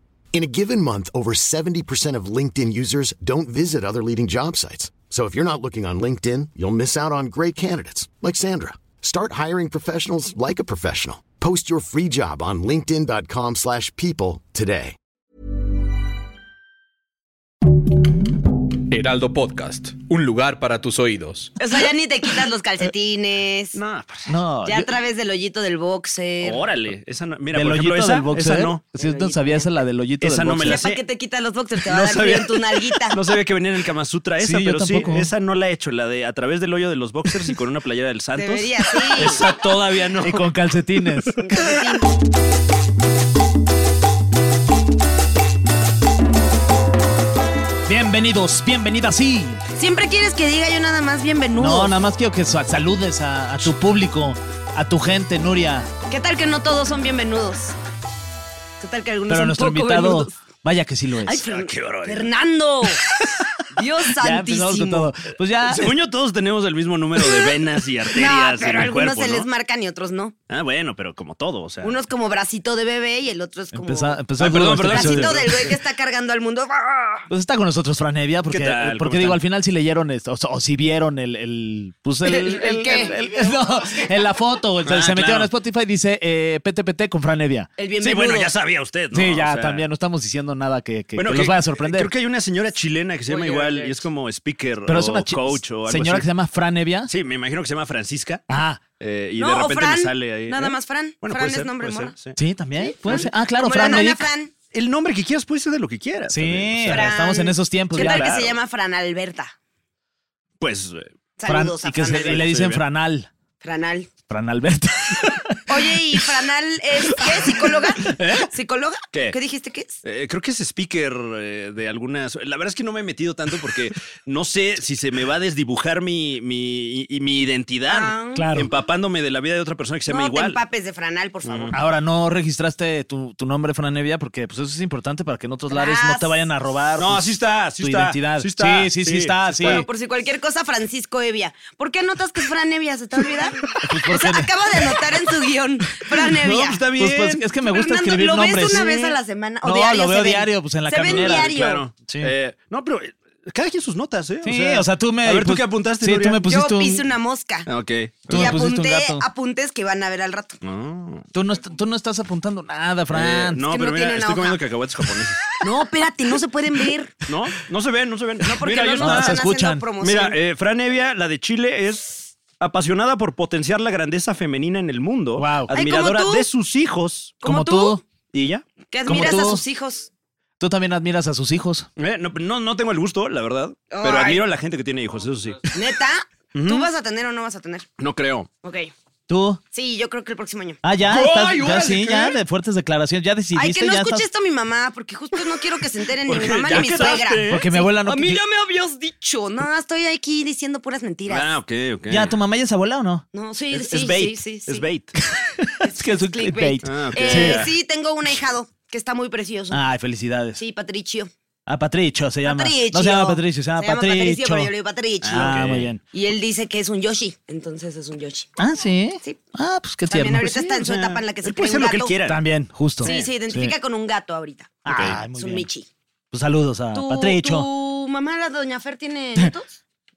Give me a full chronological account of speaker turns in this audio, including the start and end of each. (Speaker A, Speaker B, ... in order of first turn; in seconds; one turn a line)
Speaker A: 0.3-14.9
Speaker B: 18.9-21.5
Speaker C: 21.6-23.8
Speaker D: 23.8-24.4
Speaker E: 24.3-24.9
Speaker C: 24.6-26.6
Speaker D: 26.4-28.8
Speaker E: 27.5-30.8
Speaker C: 29.0-29.7
Speaker D: 30.2-31.0
Speaker C: 30.6-33.2
Speaker D: 31.8-40.5
Speaker E: 34.4-35.3
Speaker C: 38.3-39.4
Speaker E: 40.2-41.8
Speaker C: 41.4-42.0
Speaker E: 47.9-49.6
Speaker C: 49.8-51.9
Speaker E: 51.5-55.9
Speaker C: 56.1-57.8
Speaker C: 58.8-60.3
Speaker E: 59.3-61.4
Speaker C: 61.3-63.0
Speaker D: 61.5-62.3
Speaker C: 63.7-65.1
Speaker E: 64.2-65.9
Speaker D: 65.7-69.5
Speaker C: 68.1-70.3
Speaker D: 70.5-72.0
Speaker C: 71.8-74.2
Speaker E: 73.7-75.5
Speaker D: 74.4-75.7
Speaker C: 74.8-77.3
Speaker E: 77.3-87.7
Speaker D: 78.5-79.4
Speaker C: 82.2-83.2
Speaker D: 84.8-85.5
Speaker C: 87.8-88.5
Speaker D: 88.0-89.8
Speaker E: 89.1-92.1
Speaker D: 91.2-96.3
Speaker C: 93.3-94.0
Speaker E: 94.9-97.1
Speaker D: 97.1-102.4
Speaker E: 98.5-98.8
Speaker C: 99.4-102.1
Speaker E: 102.3-104.3
Speaker C: 102.8-104.5
Speaker D: 104.7-107.1
Speaker E: 106.3-108.3
Speaker C: 106.9-109.5
Speaker D: 107.9-108.6
Speaker D: 110.6-111.1
Speaker C: 111.4-112.4
Speaker E: 111.5-113.3
Speaker D: 112.0-112.8
Speaker C: 113.6-114.1
Speaker E: 114.3-116.3
Speaker C: 115.7-120.0
Speaker E: 117.0-118.1
Speaker D: 118.1-118.5
Speaker D: 120.0-130.6
Speaker C: 127.9-128.5
Speaker E: 128.3-128.7
Speaker C: 130.1-131.8
Speaker D: 131.4-131.8
Speaker E: 131.7-139.8
Speaker C: 135.7-136.5
Speaker D: 137.0-139.8
Speaker C: 139.6-146.8
Speaker E: 143.8-144.5
Speaker E: 146.2-152.3
Speaker D: 146.5-147.4
Speaker C: 147.7-151.8
Speaker D: 148.7-149.1
Speaker D: 151.0-156.5
Speaker E: 154.4-157.1
Speaker C: 156.4-157.7
Speaker D: 157.7-158.6
Speaker C: 158.3-160.6
Speaker E: 158.3-159.2
Speaker D: 160.6-161.3
Speaker E: 161.3-163.6
Speaker D: 163.1-165.5
Speaker C: 163.6-164.6
Speaker C: 165.6-167.1
Speaker D: 167.3-169.4
Speaker C: 168.4-170.3
Speaker E: 169.0-169.9
Speaker D: 170.0-177.4
Speaker E: 175.4-175.7
Speaker C: 175.7-176.5
Speaker C: 177.4-178.0
Speaker E: 177.4-178.0
Speaker D: 178.3-178.6
Speaker C: 178.9-180.1
Speaker E: 179.1-179.6
Speaker E: 180.6-181.9
Speaker D: 182.0-185.8
Speaker C: 183.9-184.4
Speaker C: 185.7-187.8
Speaker D: 186.5-186.9
Speaker D: 188.0-188.5
Speaker C: 188.6-188.9
Speaker E: 189.3-189.6
Speaker C: 189.7-190.8
Speaker E: 190.8-194.3
Speaker D: 191.0-192.4
Speaker C: 193.5-201.5
Speaker D: 196.2-197.7
Speaker E: 197.4-198.4
Speaker D: 201.3-202.3
Speaker E: 202.1-203.2
Speaker C: 203.3-204.8
Speaker D: 203.7-205.1
Speaker E: 205.3-207.7
Speaker C: 205.8-209.8
Speaker D: 206.8-207.7
Speaker E: 209.7-210.6
Speaker C: 210.6-211.3
Speaker E: 211.7-214.7
Speaker C: 212.4-218.5
Speaker D: 215.2-215.9
Speaker E: 215.3-216.0
Speaker E: 218.6-220.6
Speaker C: 220.1-222.2
Speaker D: 220.4-222.4
Speaker E: 222.2-223.7
Speaker D: 223.0-223.3
Speaker C: 223.0-225.9
Speaker E: 224.8-225.7
Speaker D: 224.9-225.2
Speaker E: 226.3-227.7
Speaker C: 226.9-229.8